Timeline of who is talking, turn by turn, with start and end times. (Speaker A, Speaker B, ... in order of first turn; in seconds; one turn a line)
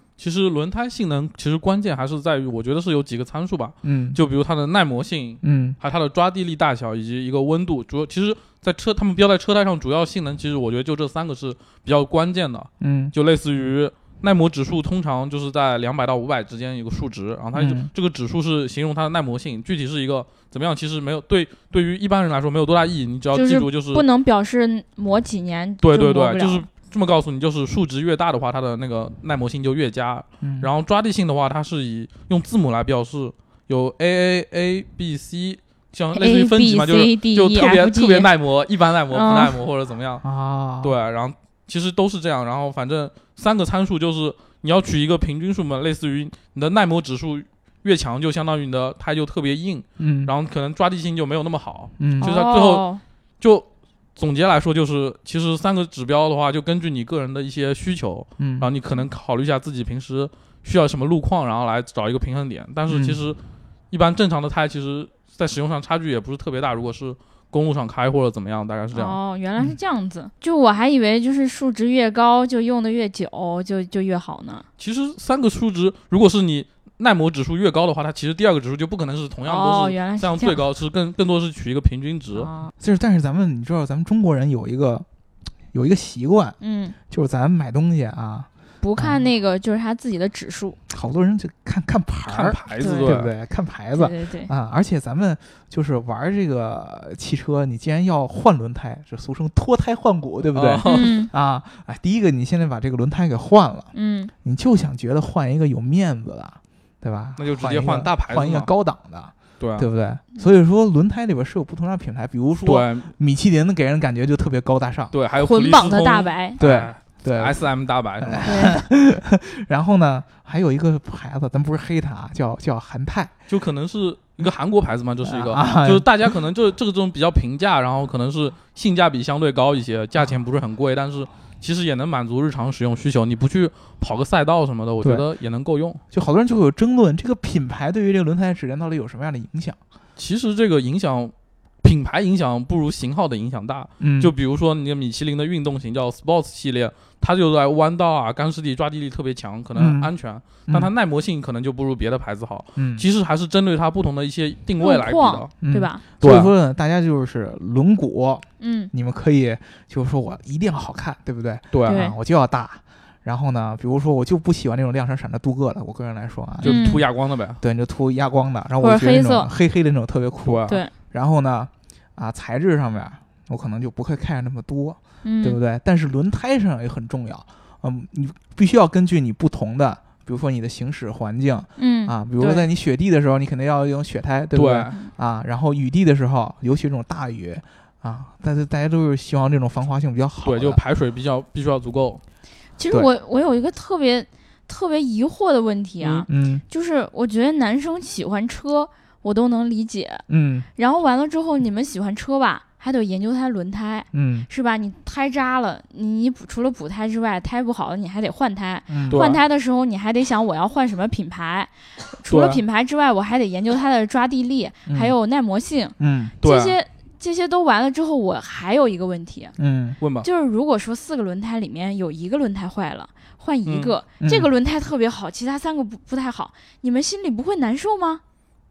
Speaker A: 0.2-24.0
Speaker B: 3.8-4.2
Speaker B: 5.4-5.8
Speaker B: 12.8-13.1
Speaker B: 17.5-17.9
Speaker C: 23.3-26.7
Speaker A: 25.8-40.2
Speaker B: 30.4-30.7
Speaker C: 36.1-38.3
Speaker C: 39.1-39.6
Speaker B: 40.2-41.0
Speaker A: 40.8-52.9
Speaker B: 50.0-50.3
Speaker B: 52.0-52.3
Speaker C: 52.2-53.0
Speaker A: 53.4-63.4
Speaker B: 58.4-58.7
Speaker B: 62.9-63.2
Speaker A: 63.9-69.2
Speaker C: 68.9-74.7
Speaker A: 74.8-82.5
Speaker C: 79.5-80.6
Speaker C: 82.3-82.7
Speaker B: 82.8-85.1
Speaker B: 85.7-86.6
Speaker C: 86.6-87.0
Speaker B: 87.1-89.2
Speaker C: 88.8-90.8
Speaker B: 90.9-103.9
Speaker A: 92.3-93.3
Speaker C: 92.8-93.2
Speaker C: 93.9-94.5
Speaker A: 100.5-101.2
Speaker C: 100.8-101.3
Speaker C: 103.9-104.3
Speaker B: 104.4-115.1
Speaker A: 107.4-108.7
Speaker A: 109.6-109.9
Speaker A: 112.6-113.1
Speaker A: 115.1-118.5
Speaker C: 115.4-116.6
Speaker B: 116.6-117.6
Speaker B: 118.2-123.3
Speaker C: 118.5-118.8
Speaker A: 123.5-136.0
Speaker B: 125.2-126.3
Speaker B: 136.1-139.8
Speaker A: 140.2-155.5
Speaker B: 144.0-144.3
Speaker B: 149.8-150.1
Speaker B: 152.8-153.1
Speaker C: 154.8-156.0
Speaker B: 155.6-167.1
Speaker A: 156.2-156.5
Speaker C: 158.6-158.9
Speaker A: 161.7-162.1
Speaker C: 161.9-162.2
Speaker A: 166.6-167.6
Speaker C: 166.6-167.0
Speaker B: 167.6-190.8
Speaker C: 168.8-169.5
Speaker A: 170.4-170.8
Speaker C: 175.2-175.6
Speaker C: 181.8-182.7
Speaker A: 184.5-184.9
Speaker A: 190.4-192.2
Speaker C: 192.8-200.2
Speaker B: 196.3-196.6
Speaker B: 200.3-200.7
Speaker C: 200.8-219.6
Speaker B: 204.1-204.5
Speaker B: 208.9-209.3
Speaker A: 209.1-209.4
Speaker A: 212.3-212.6
Speaker B: 214.9-215.1
Speaker B: 216.0-216.3
Speaker A: 216.4-216.8
Speaker B: 219.6-220.0
Speaker A: 220.0-220.3
Speaker C: 220.2-228.2
Speaker A: 223.7-223.9
Speaker B: 224.2-224.5